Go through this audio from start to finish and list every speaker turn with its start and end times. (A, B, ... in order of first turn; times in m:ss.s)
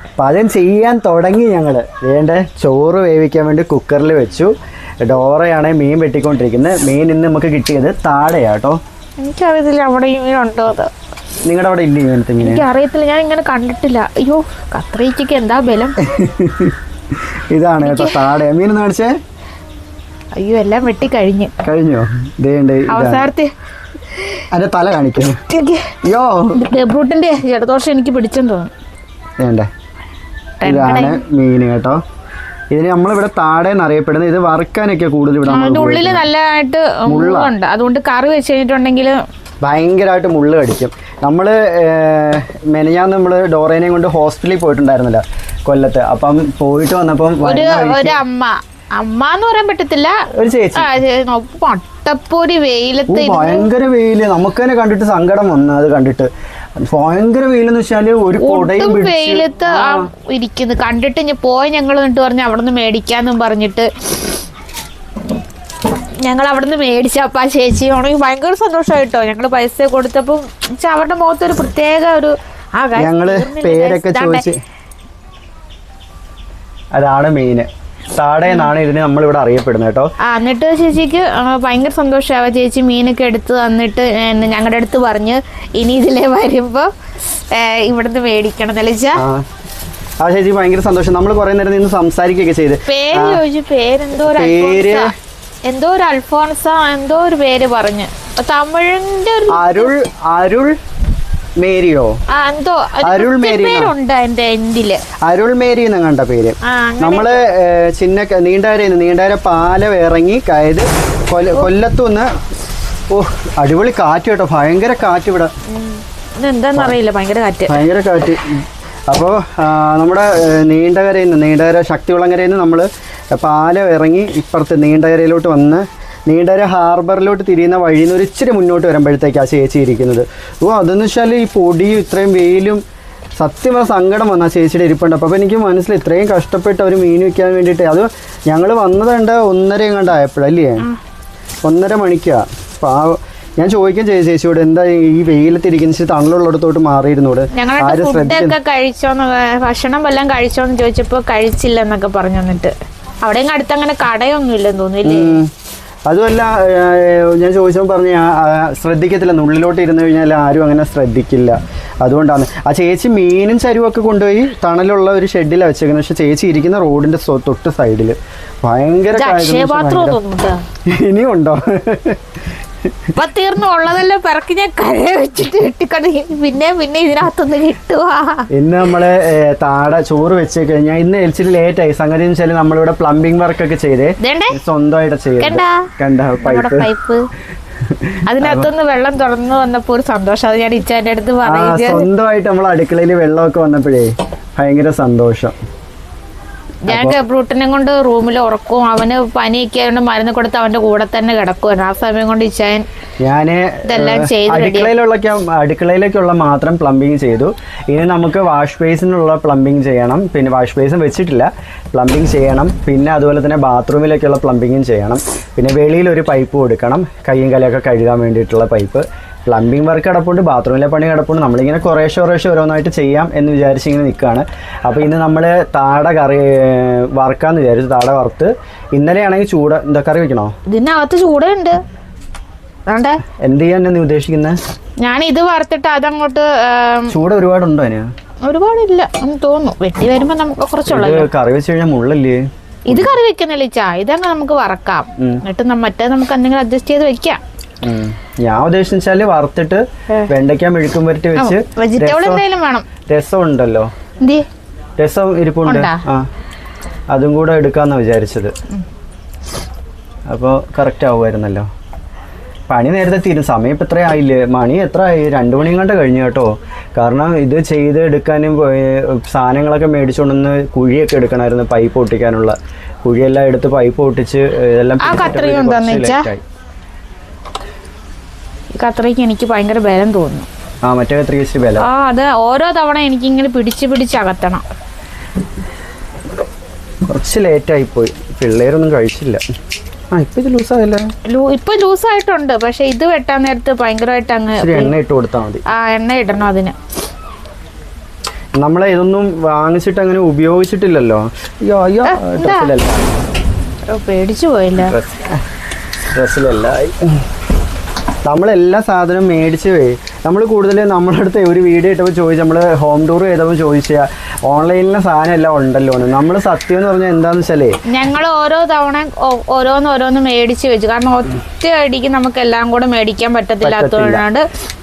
0:00.2-0:04.5 A
0:05.0-0:08.8 A
0:09.2-0:10.9 B
0:11.4-0:12.6 A
0:12.4-0:16.0 B
0:16.0-0:16.8 A
0:17.5-0:19.1 A
0:17.8-0:18.2 B
0:20.4-0:21.5 B
0:21.6-0:23.3 A
0:22.9-0:23.5 B
0:24.5-0:25.4 A
0:25.5-0:26.0 B
0:26.0-0:26.6 A
0:26.5-0:28.7 B
0:29.4-0:29.7 A
0:30.6-0:31.2 B
0:30.6-0:32.0 A
0:32.7-0:36.3 A
0:35.5-0:39.2 B
0:37.0-0:37.5 A
0:39.6-0:48.2 A
0:47.4-0:50.2 B
0:50.3-0:50.9 A
0:50.7-0:53.7 B
0:53.1-0:56.3 A
0:56.8-1:00.1 A
0:58.4-1:03.9 B
1:06.2-1:14.4 B
1:13.0-1:14.6 A
1:16.9-1:20.1 A
1:20.2-1:29.2 B
1:29.2-1:29.4 A
1:30.2-1:33.4 A
1:32.9-1:35.1 B
1:34.2-1:35.1 A
1:35.6-1:39.9 B
1:39.5-1:40.8 A
1:41.6-1:42.1 A
1:42.3-1:45.0 B
1:43.0-1:43.9 A
1:45.2-1:52.3 A
1:46.6-1:47.4 B
1:53.1-1:55.5 A
1:55.7-1:57.8 B
1:57.7-2:12.8 A
2:13.4-2:20.8 A
2:21.6-2:28.6 A
2:27.5-2:35.4 B
2:35.0-2:35.5 A
2:36.1-2:50.2 A
2:49.2-2:50.6 B
2:50.8-2:52.2 A
2:53.2-2:58.5 B
2:58.5-3:06.9 A
3:04.2-3:04.6 B
3:05.4-3:05.9 B
3:06.4-3:07.3 B
3:08.1-3:08.7 A
3:08.3-3:12.1 B
3:11.4-3:15.6 A
3:16.9-3:17.2 A
3:16.9-3:22.8 B
3:23.2-3:50.5 A
3:23.8-3:24.9 B
3:50.7-3:51.8 B
3:52.9-3:53.2 B
3:53.4-3:54.6 A
3:55.0-3:57.2 B
3:57.1-3:58.1 A
3:58.4-4:01.3 B
4:00.9-4:03.2 A
4:02.9-4:07.4 B
4:07.8-4:12.4 A
4:11.4-4:12.9 B
4:13.1-4:13.9 A
4:14.2-4:14.4 B
4:15.0-4:16.3 A
4:15.6-4:16.0 B
4:17.1-4:18.5 A
4:20.3-4:21.7 A
4:22.7-4:36.4 A
4:35.0-4:36.3 B
4:38.8-4:40.5 B
4:40.8-4:41.9 A
4:41.8-4:44.6 B
4:47.1-4:49.4 A
4:50.1-4:51.1 A
4:51.2-4:54.9 B
4:54.6-4:55.6 A
4:55.7-4:56.8 B
4:58.6-5:03.1 A
5:02.0-5:02.7 B
5:03.9-5:05.0 B
5:04.8-5:05.4 A
5:06.1-5:07.2 A
5:08.2-5:17.8 A
5:17.9-5:24.4 B
5:23.6-5:24.2 A